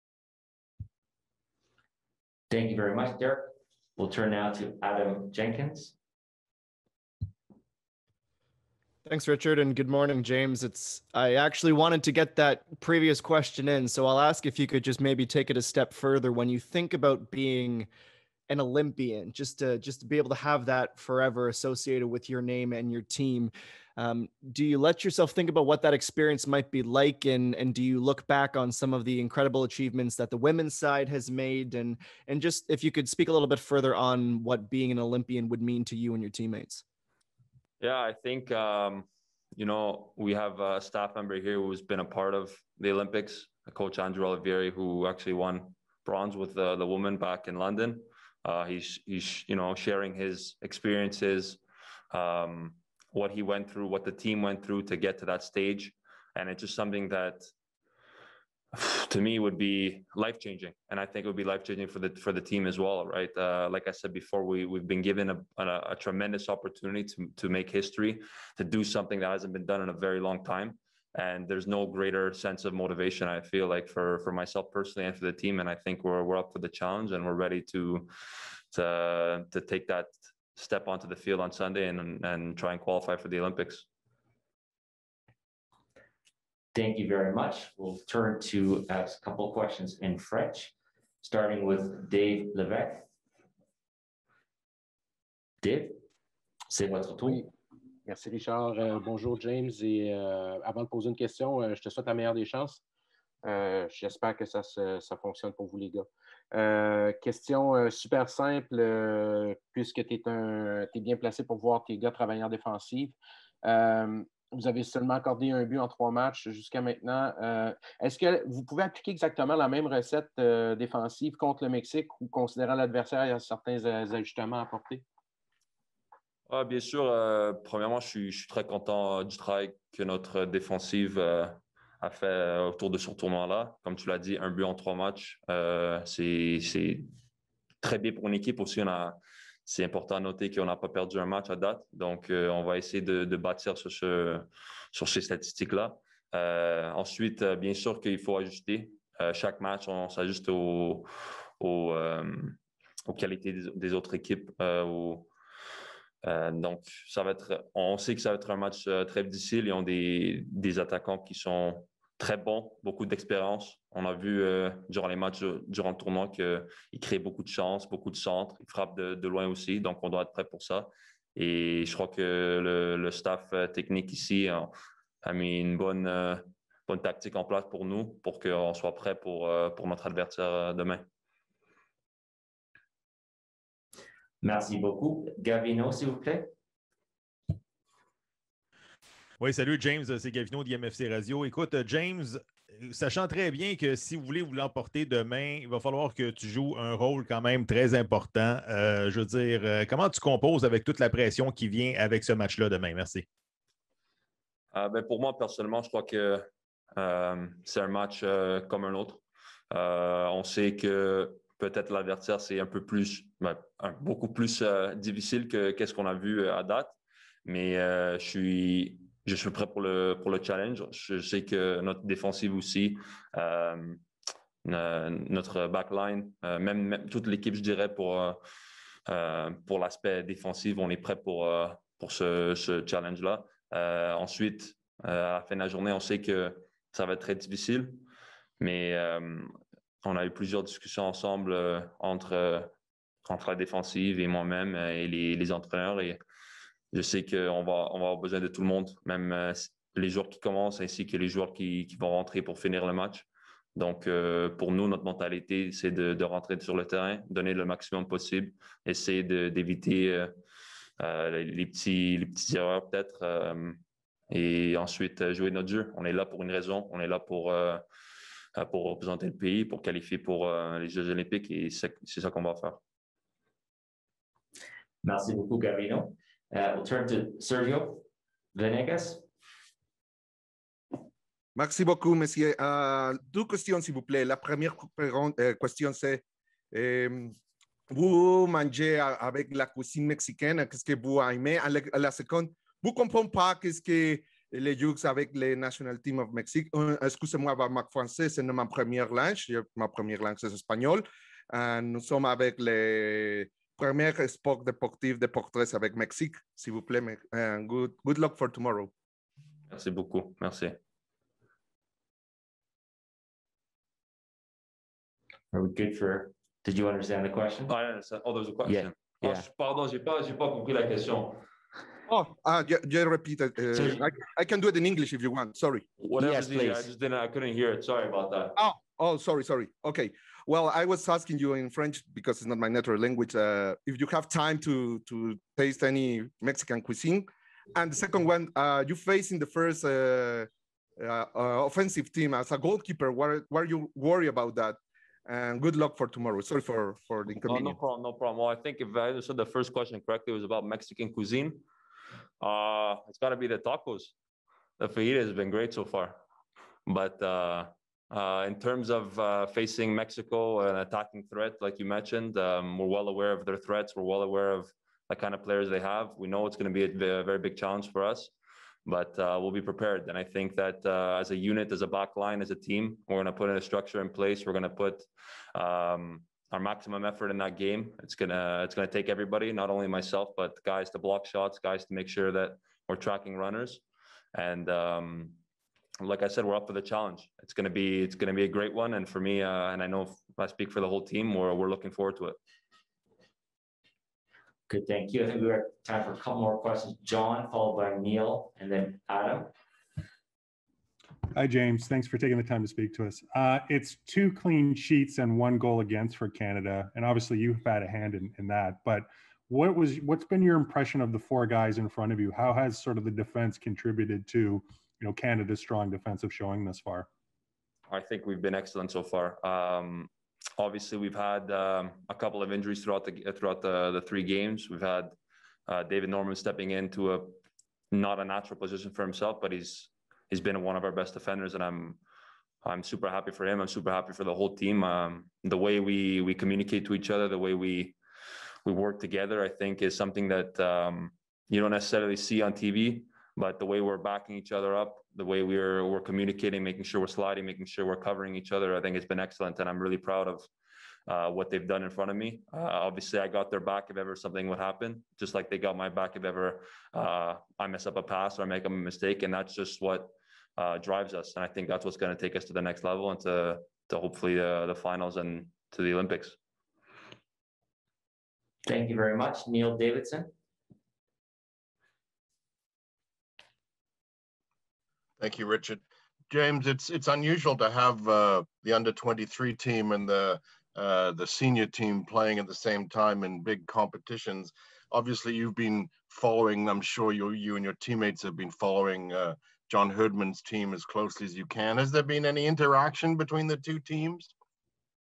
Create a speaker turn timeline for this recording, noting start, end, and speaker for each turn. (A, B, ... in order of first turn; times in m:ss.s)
0:02.5-0:05.9 A
0:09.0-0:17.9 B
0:18.5-0:36.8 B
0:37.8-0:51.6 C
0:52.1-0:57.5 C
0:58.7-1:18.1 C
1:18.7-1:23.8 C
1:26.7-1:33.0 A
1:35.6-1:36.0 A
1:36.7-1:37.5 A
1:37.2-1:37.5 D
1:38.0-1:42.8 D
1:43.4-2:05.0 D
2:06.5-2:17.1 C
2:17.8-2:35.3 C
2:36.2-2:54.7 C
2:55.2-3:01.1 C
3:04.4-3:06.5 A
3:09.4-3:23.2 E
3:24.7-3:36.9 C
3:37.4-3:44.0 C
3:44.6-3:48.4 C
3:49.1-3:58.0 C
3:58.6-4:02.7 C
4:03.2-4:06.2 C
4:06.9-4:20.3 C
4:21.0-4:27.8 C
4:28.6-4:32.8 C
4:35.0-4:39.2 A
4:41.6-4:47.3 F
4:47.9-5:08.9 F
5:09.7-5:10.8 C
5:15.5-5:17.7 A
5:17.7-5:21.4 C
5:18.6-5:19.4 A
5:22.1-5:25.8 F
5:23.7-5:24.0 A
5:26.0-5:28.5 C
5:26.2-5:26.9 A
5:28.6-5:40.5 F
5:41.0-5:47.8 F
5:47.5-5:51.6 C
5:52.4-5:54.1 C
5:54.8-5:56.2 C
5:56.8-6:08.3 C
6:08.8-6:23.8 C
6:24.3-6:25.4 C
6:26.0-6:32.4 C
6:34.7-6:39.5 A
6:41.3-6:57.1 G
6:57.9-7:05.1 C
7:05.7-7:07.4 C
7:07.9-7:12.0 C
7:12.6-7:18.0 C
7:18.6-7:30.5 C
7:31.1-7:46.4 C
7:48.6-7:50.3 A
7:55.2-8:14.3 H